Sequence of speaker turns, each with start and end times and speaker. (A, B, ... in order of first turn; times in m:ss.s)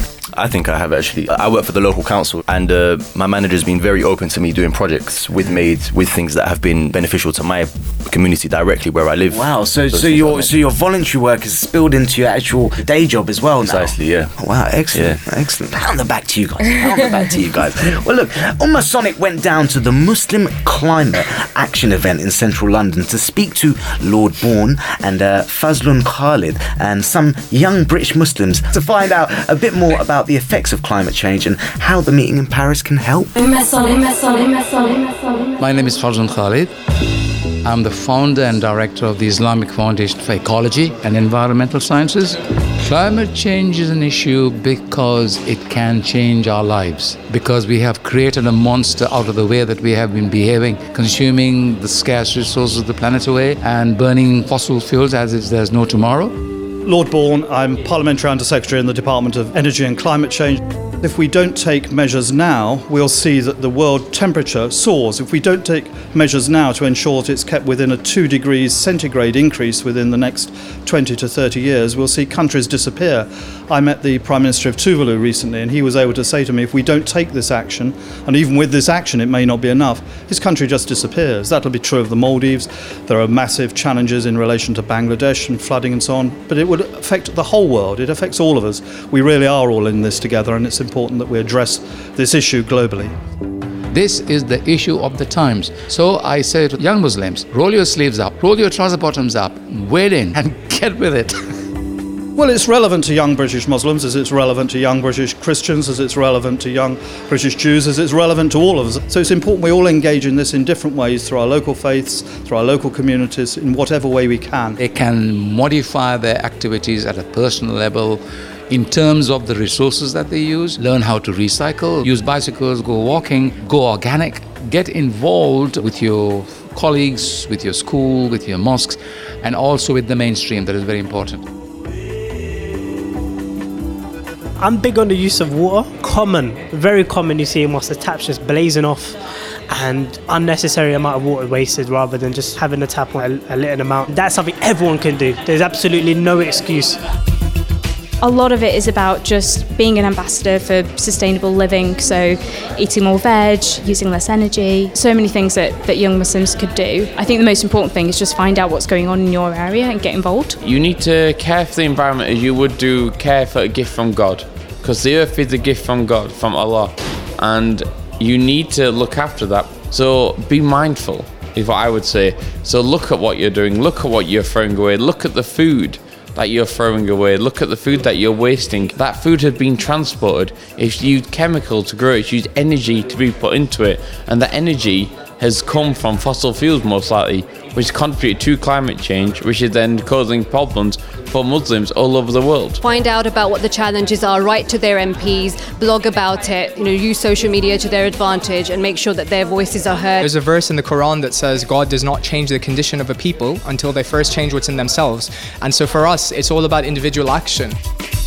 0:00.4-0:10.5 A
0:09.3-0:33.3 B
0:13.7-0:14.3 A
0:14.9-0:15.2 A
0:35.6-0:36.7 C
0:37.6-0:56.4 C
0:56.8-1:33.1 D
1:33.9-1:41.4 C
1:42.4-1:54.8 D
1:54.8-2:11.4 C
2:14.6-2:19.2 E
2:19.7-2:27.0 E
2:28.2-2:40.6 F
2:40.6-3:12.8 G
3:12.8-3:20.3 H
3:20.2-3:27.8 I